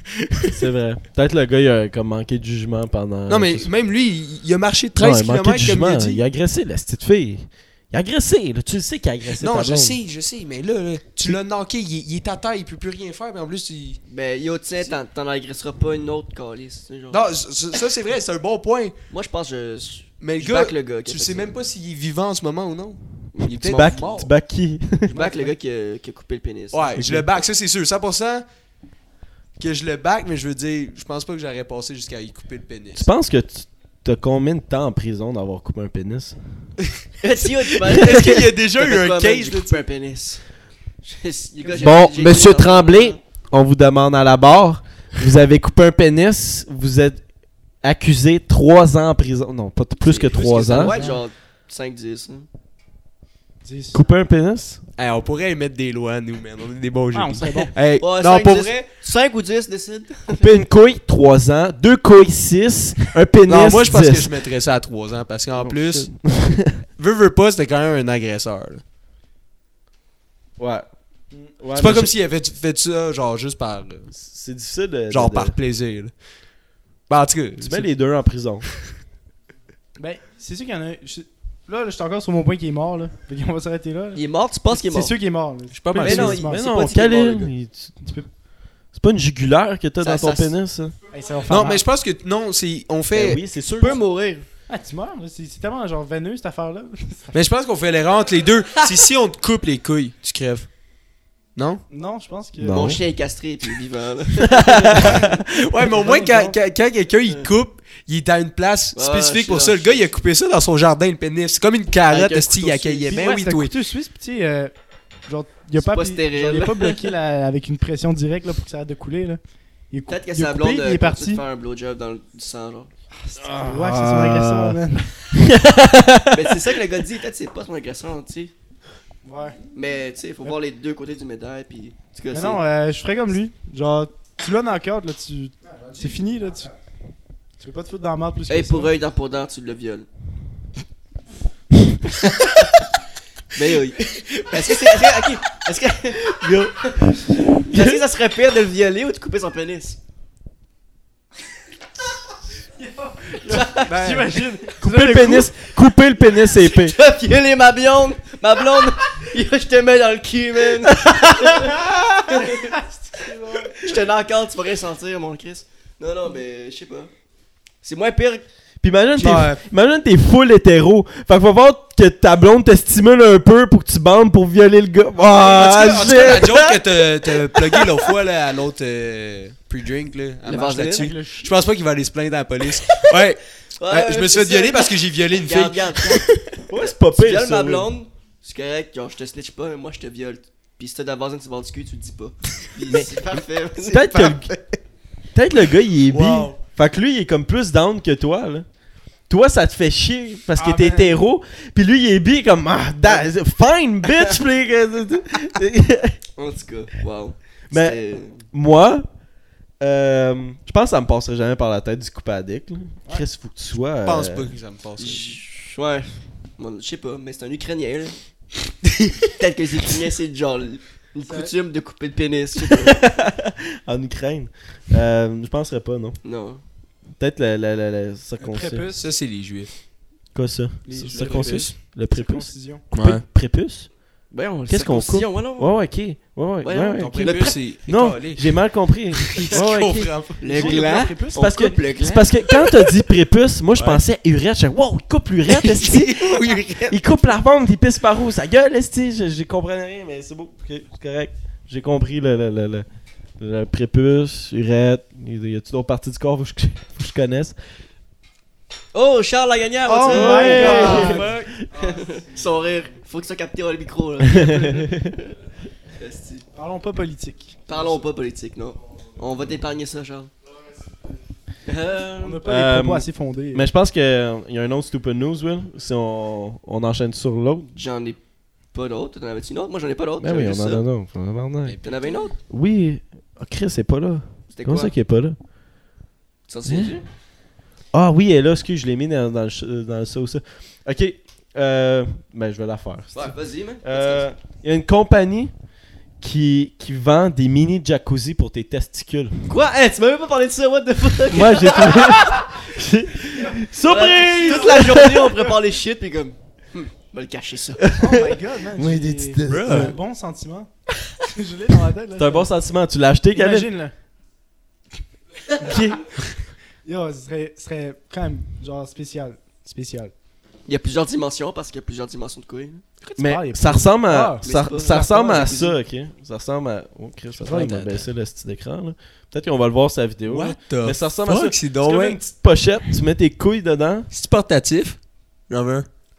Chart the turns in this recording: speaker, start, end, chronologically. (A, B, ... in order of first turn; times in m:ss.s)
0:00.5-0:03.7 A
0:03.3-0:06.2 B
0:05.0-0:10.0 A
0:09.4-0:14.0 B
0:14.1-0:17.2 C
0:17.1-0:19.0 B
0:19.1-0:21.5 C
0:20.2-0:24.3 B
0:23.4-0:24.0 C
0:23.6-0:25.2 A
0:25.1-0:27.1 C
0:26.7-0:28.4 B
0:27.0-0:27.3 A
0:29.6-0:33.1 B
0:33.0-0:36.4 A
0:37.2-0:40.4 C
0:37.8-0:39.8 B
0:38.0-0:38.3 A
0:41.0-0:43.2 C
0:41.7-0:47.2 A
0:47.8-0:51.0 A
0:50.0-0:52.5 C
0:50.7-0:51.2 D
0:53.6-0:54.0 D
0:53.9-0:54.8 A
0:55.0-0:58.7 B
0:57.1-0:57.7 D
0:58.0-1:00.5 C
1:00.3-1:04.3 A
1:03.5-1:06.2 B
1:05.6-1:06.8 A
1:07.0-1:08.8 B
1:10.6-1:12.1 A
1:11.8-1:14.1 B
1:14.1-1:15.6 A
1:15.1-1:16.1 B
1:17.1-1:17.9 B
1:17.6-1:18.7 A
1:20.0-1:26.6 D
1:24.2-1:25.1 C
1:25.7-1:26.4 B
1:26.0-1:27.5 C
1:26.0-1:28.0 A
1:28.0-1:28.3 D
1:28.9-1:31.0 A
1:30.0-1:30.6 C
1:31.1-1:31.8 D
1:31.5-1:33.4 B
1:33.1-1:34.0 A
1:33.8-1:34.5 C
1:34.7-1:37.4 D
1:37.3-1:40.7 B
1:41.6-1:41.8 B
1:41.9-1:43.0 D
1:42.6-1:43.0 A
1:42.7-1:45.2 C
1:44.5-1:53.7 B
1:44.6-1:46.6 D
1:49.0-1:50.1 C
1:52.1-1:53.1 C
1:53.1-1:54.7 D
1:55.3-1:59.4 D
1:55.8-1:56.9 C
1:59.9-2:01.4 D
2:00.1-2:02.9 C
2:03.2-2:05.1 D
2:03.4-2:06.7 A
2:06.3-2:08.5 C
2:09.2-2:09.6 D
2:09.7-2:12.6 C
2:12.3-2:16.8 D
2:17.6-2:18.9 D
2:18.5-2:20.1 C
2:23.5-2:30.0 C
2:24.1-2:25.3 B
2:26.2-2:28.0 A
2:32.8-2:35.5 D
2:33.4-2:34.2 C
2:33.9-2:34.2 B
2:34.8-2:37.0 A
2:36.6-2:42.8 C
2:40.9-2:42.4 A
2:42.4-2:43.9 D
2:43.8-2:47.1 C
2:47.8-2:48.4 C
2:48.8-2:56.8 A
2:49.2-2:49.6 B
2:55.2-3:06.3 B
3:00.4-3:01.1 C
3:00.6-3:01.5 D
3:03.8-3:14.2 C
3:06.7-3:07.9 A
3:12.9-3:13.2 A
3:13.8-3:14.5 A
3:14.1-3:14.6 B
3:15.3-3:18.7 A
3:16.1-3:16.6 B
3:19.3-3:26.2 A
3:20.6-3:21.2 D
3:26.4-3:28.4 C
3:27.7-3:29.1 A
3:29.8-3:34.5 A
3:34.0-3:35.4 B
3:35.0-3:38.2 C
3:39.4-3:43.0 C
3:41.3-3:41.5 D
3:42.7-3:46.2 A
3:46.2-3:46.6 C
3:47.2-3:48.9 A
3:48.4-3:49.1 D
3:49.0-3:49.7 B
3:50.3-3:53.9 A
3:50.9-3:51.8 B
3:51.1-3:52.8 D
3:52.9-3:53.2 B
3:54.3-3:55.7 C
3:54.7-4:12.9 A
3:56.6-3:57.6 C
3:57.0-3:58.5 B
3:59.3-4:00.4 B
4:00.4-4:02.5 C
4:00.4-4:01.8 D
4:03.8-4:04.0 B
4:05.5-4:07.0 B
4:13.4-4:17.6 A
4:18.9-4:25.3 C
4:19.8-4:21.3 D
4:20.1-4:21.5 A
4:20.4-4:21.5 B
4:24.2-4:25.1 A
4:26.0-4:26.4 C
4:26.6-4:27.8 D
4:27.7-4:30.3 C
4:31.6-4:32.4 C
4:32.2-4:33.7 D
4:32.4-4:37.7 A
4:37.8-4:38.2 C
4:38.7-4:40.8 C
4:40.2-4:41.8 A
4:41.6-4:42.1 B
4:41.8-4:42.4 C
4:42.5-4:45.4 A
4:44.5-4:44.9 C
4:46.5-4:47.0 C
4:46.7-4:47.0 A
4:47.9-4:55.5 A
4:53.1-4:54.3 C
4:56.2-4:59.5 A
4:59.5-5:02.3 C
5:01.3-5:05.4 A
5:03.8-5:07.9 C
5:04.1-5:05.4 D
5:07.8-5:10.0 A
5:08.0-5:12.5 D
5:09.5-5:10.0 B
5:12.2-5:13.7 A
5:13.3-5:13.9 D
5:15.6-5:16.0 D
5:15.6-5:16.0 A
5:16.8-5:20.1 D
5:20.7-5:22.8 C
5:23.0-5:25.6 D
5:23.2-5:34.1 A
5:24.4-5:25.8 C
5:27.4-5:27.9 D
5:27.5-5:28.0 B
5:30.3-5:32.2 B
5:34.1-5:35.9 B